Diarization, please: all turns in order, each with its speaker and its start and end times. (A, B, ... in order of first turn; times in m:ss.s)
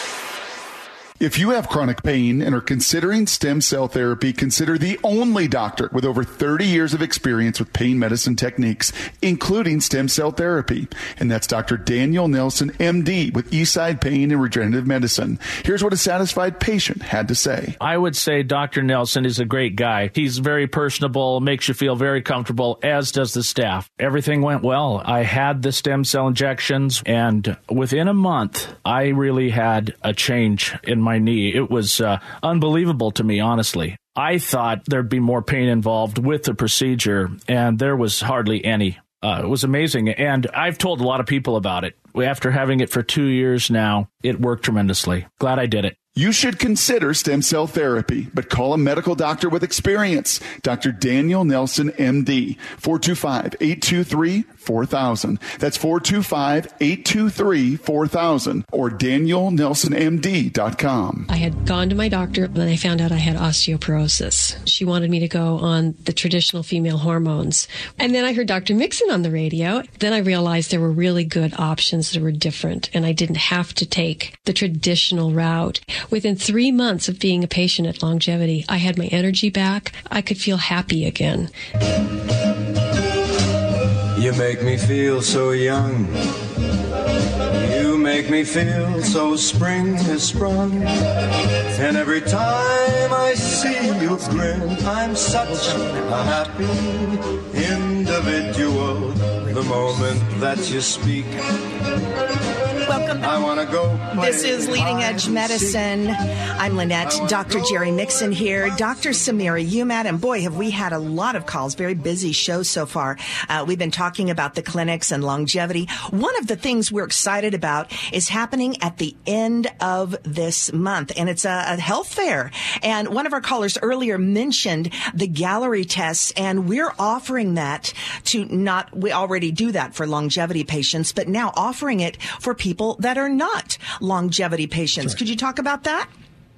0:01.2-0:17.8 A
0:17.8-0:46.0 B
0:46.1-1:01.3 A
1:01.3-1:21.5 C
1:24.1-1:26.2 D
1:27.5-1:31.0 D
1:31.7-1:41.4 D
1:42.9-1:43.3 E
1:43.2-1:45.8 D
1:44.1-2:16.1 E
1:47.0-1:48.3 D